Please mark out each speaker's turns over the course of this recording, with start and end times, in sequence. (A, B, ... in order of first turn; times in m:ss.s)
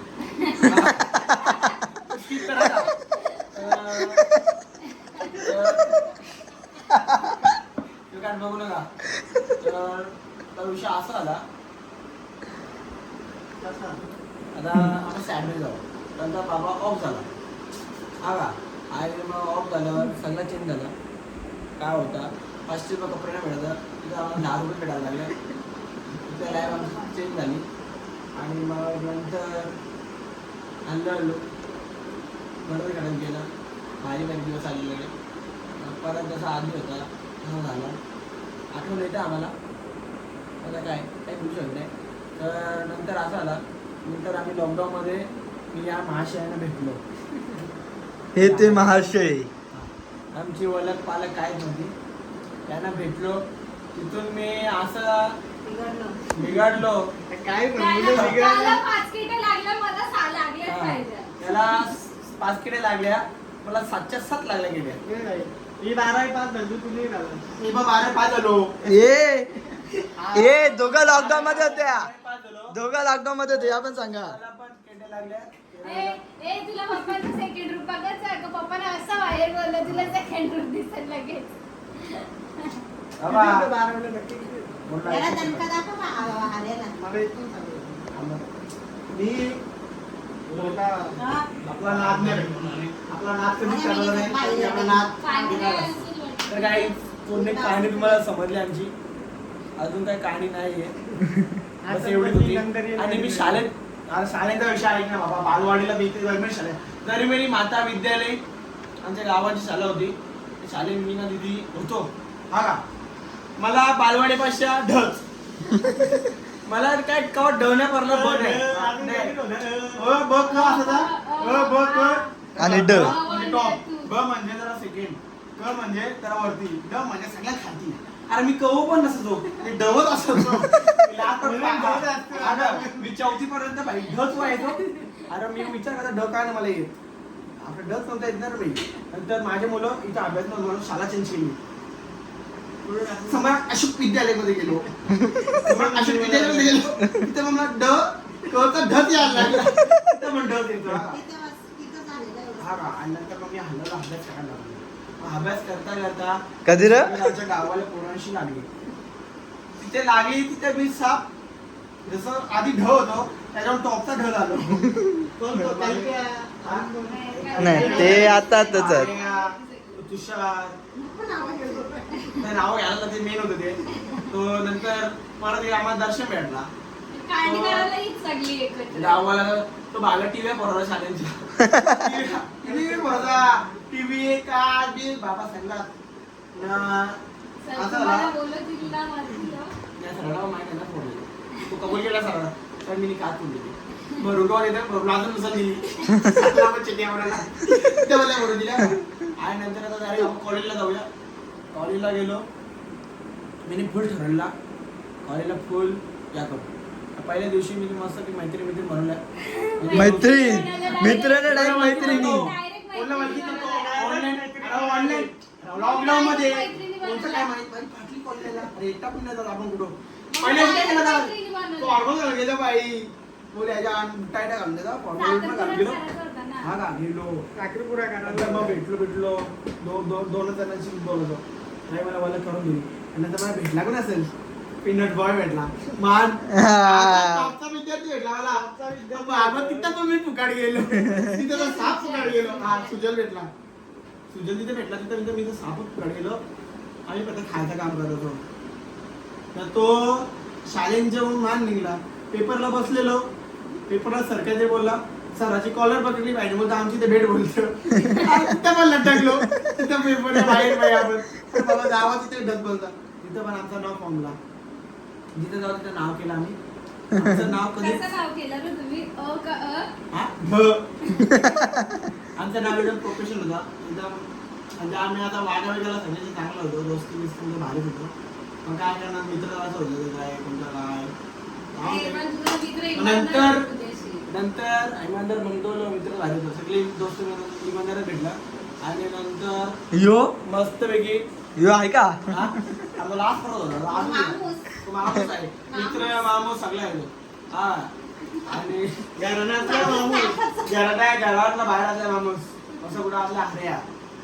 0:00.3-0:00.6 A
0:00.6-0:01.6 B
0:02.1-0:02.9 B
0:03.5-0:04.3 B
0:05.3-0:06.1 B
0:08.1-0:08.9 B
0:09.6-0:11.4 B
0:13.6-0:14.0 C
0:14.5-0:17.3 B
0:18.2-0:20.9 B
0:21.8-0:25.3 B
0:26.1-0:27.6 B
0:26.5-0:27.0 D
0:28.4-0:29.7 B
0:30.9-0:31.4 B
0:32.7-0:33.5 B
0:34.0-0:35.1 B
0:35.8-0:38.0 B
0:38.7-0:39.5 B
0:40.6-0:47.0 B
0:48.4-0:49.5 E
0:48.4-0:48.9 B
0:49.7-0:51.9 B
0:52.7-0:53.4 B
0:54.0-0:55.4 B
0:55.6-0:56.2 D
0:56.4-0:57.1 B
0:57.3-0:58.8 C
0:57.7-1:01.3 A
1:00.7-1:05.0 B
1:05.1-1:07.5 C
1:07.6-1:08.8 B
1:08.9-1:09.5 E
1:10.2-1:11.3 C
1:10.2-1:12.8 B
1:10.3-1:12.1 E
1:12.7-1:14.4 E
1:13.5-1:16.2 B
1:15.8-1:22.8 A
1:19.9-1:20.2 B
1:23.2-1:23.7 B
1:23.2-1:24.8 C
1:24.8-1:25.7 B
1:25.0-1:27.0 D
1:27.0-1:28.1 C
1:28.1-1:28.5 B
1:29.1-1:29.6 B
1:30.5-1:31.2 C
1:30.5-1:30.8 B
1:31.2-1:31.5 D
1:31.6-1:36.0 B
1:31.9-1:32.9 C
1:33.6-1:35.9 D
1:35.2-1:37.0 A
1:36.5-1:38.9 B
1:37.3-1:38.2 D
1:39.8-1:41.2 B
1:41.8-1:43.6 C
1:41.9-1:48.4 B
1:49.0-1:52.8 B
1:53.6-1:55.2 B
1:55.7-1:56.1 E
1:56.7-1:59.4 B
1:58.0-2:00.2 C
2:00.0-2:16.9 B
2:00.4-2:02.3 A
2:02.6-2:03.1 E
2:02.9-2:04.1 A
2:11.4-2:13.1 C
2:14.4-2:15.2 A
2:17.6-2:21.6 B
2:22.8-2:23.5 C
2:23.3-2:24.9 B
2:25.1-2:25.6 E
2:25.6-2:26.8 C
2:25.6-2:31.2 B
2:27.0-2:27.3 E
2:29.4-2:30.0 E
2:30.9-2:32.7 D
2:32.6-2:38.7 B
2:36.7-2:37.2 E
2:39.8-2:41.3 B
2:42.1-2:44.9 B
2:44.9-2:45.3 E
2:45.4-2:48.4 C
2:45.5-2:50.8 B
2:47.1-2:50.0 A
2:47.6-2:49.1 E
2:51.0-2:52.4 D
2:52.4-2:56.7 B
2:53.9-2:54.3 A
2:57.1-2:59.2 A
2:57.4-2:57.9 B
2:58.9-3:05.9 B
3:01.6-3:02.1 E
3:02.6-3:03.7 C
3:06.6-3:07.2 B
3:07.6-3:09.7 A
3:07.8-3:08.3 B
3:10.0-3:21.1 B
3:21.7-3:22.4 B
3:23.7-3:24.5 B
3:25.2-3:26.7 B
3:27.2-3:29.2 B
3:29.4-3:34.0 A
3:29.8-3:46.0 B
3:29.9-3:32.5 E
3:33.1-3:35.3 C
3:35.7-3:37.5 A
3:40.3-3:42.0 A
3:45.2-3:46.8 A
3:46.6-3:47.4 B
3:47.6-3:48.8 C
3:48.2-3:54.3 B
3:54.8-4:03.5 B
3:56.5-3:57.5 E
3:58.5-4:00.0 C
4:01.4-4:03.0 A
4:04.3-4:06.4 B
4:07.1-4:08.4 B
4:09.5-4:13.2 B
4:13.9-4:24.4 B
4:18.0-4:18.3 E
4:19.2-4:19.7 E
4:25.4-4:26.6 B
4:27.1-4:27.4 E
4:27.2-4:28.0 B
4:27.8-4:29.9 A
4:30.1-4:30.8 B
4:31.0-4:31.6 A
4:31.2-4:32.0 E
4:32.4-4:34.2 B
4:34.8-4:38.1 B
4:38.6-4:41.1 B
4:41.7-4:42.2 B
4:41.8-4:44.2 A
4:43.0-4:43.7 B
4:44.3-4:49.7 B
4:49.9-4:50.3 E
4:50.4-4:51.2 B
4:51.6-4:52.5 E
4:52.3-4:57.9 B
4:53.9-4:54.6 D
4:55.7-4:56.2 D
4:58.4-5:00.0 B
4:59.2-5:00.4 C
4:59.6-5:00.7 D
5:00.6-5:03.8 B